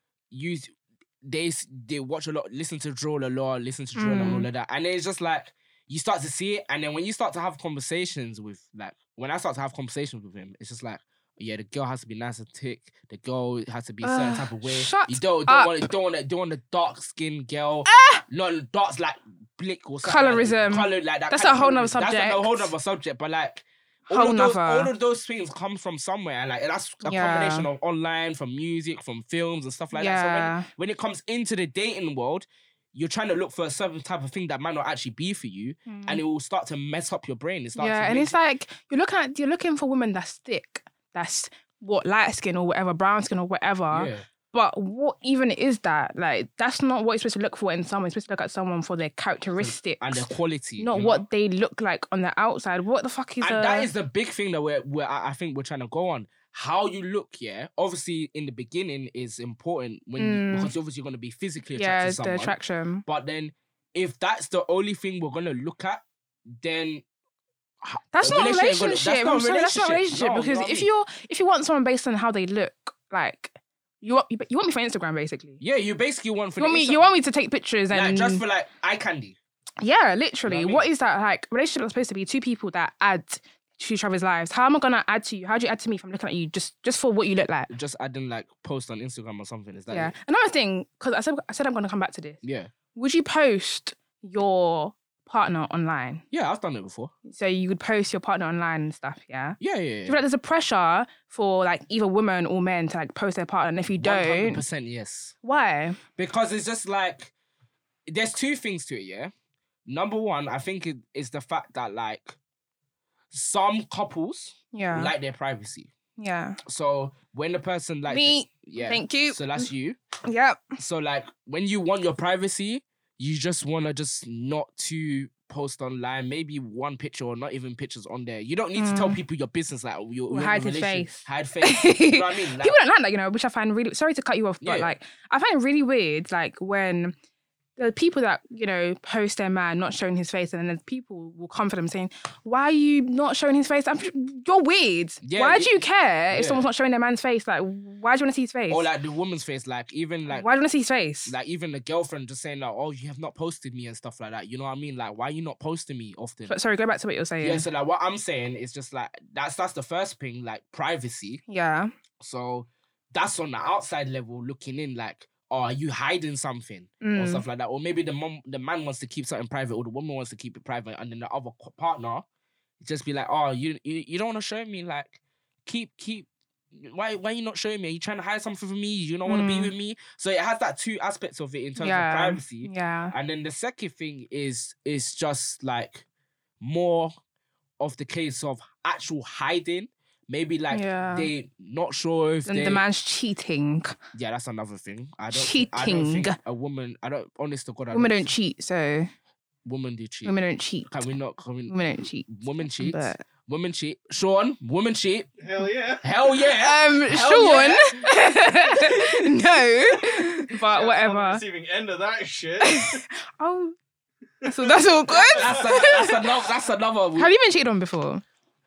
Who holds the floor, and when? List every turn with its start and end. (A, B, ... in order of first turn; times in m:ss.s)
0:00.3-0:38.4 A
0:04.0-0:04.5 B
0:14.0-0:15.9 B
0:17.9-0:18.2 B
0:20.0-0:22.7 B
0:24.1-0:24.9 B
0:27.0-0:27.7 B
0:29.9-0:30.7 B
0:35.9-0:36.2 B
0:37.8-0:53.9 B
0:43.9-0:44.2 A
0:49.6-0:51.2 A
0:53.4-1:06.0 A
1:00.2-1:00.7 B
1:01.8-1:03.0 B
1:06.6-1:07.0 A
1:07.8-1:10.9 A
1:08.1-1:15.6 B
1:15.6-1:17.0 A
1:16.6-1:18.4 B
1:17.9-1:19.4 A
1:19.8-1:27.7 B
1:20.4-1:20.9 A
1:27.7-1:30.1 A
1:29.9-1:32.4 B
1:32.4-1:32.7 A
1:32.9-1:36.2 B
1:36.3-1:37.1 A
1:37.2-1:44.6 B
1:39.6-1:40.2 A
1:44.0-1:45.4 A
1:45.4-1:46.0 B
1:46.1-1:47.3 A
1:48.1-1:49.3 A
1:49.9-1:52.4 A
1:53.3-1:55.9 A
1:54.7-1:55.1 B
1:56.2-1:56.6 B
1:56.6-2:00.0 A
1:58.1-1:59.7 B
2:00.2-2:00.8 B
2:00.8-2:12.8 A
2:08.8-2:09.2 B
2:10.3-2:17.1 B
2:14.6-2:14.9 A
2:17.8-2:28.9 B
2:25.2-2:25.8 A
2:26.3-2:26.6 A
2:28.7-2:30.4 A
2:30.3-2:31.3 B
2:31.2-2:36.6 A
2:36.5-2:37.6 B
2:37.4-2:41.4 A
2:41.5-2:41.9 B
2:42.2-2:52.2 A
2:47.0-2:47.4 B
2:52.8-3:06.0 A
2:59.2-2:59.7 B
3:01.8-3:03.1 B
3:06.6-3:07.1 A
3:07.8-3:12.8 A
3:10.7-3:11.3 B
3:12.5-3:14.0 B
3:14.1-3:18.3 A
3:15.3-3:16.4 B
3:17.9-3:19.1 B
3:19.6-3:20.4 A
3:20.2-3:20.9 B
3:20.9-3:25.4 A
3:21.7-3:23.2 B
3:25.4-3:26.1 C
3:26.0-3:27.9 A
3:26.5-3:31.4 B
3:28.8-3:29.1 A
3:30.0-3:33.0 C
3:32.6-3:33.7 B
3:34.4-3:35.9 C
3:34.4-3:36.3 B
3:35.3-3:37.3 A
3:37.1-3:38.2 B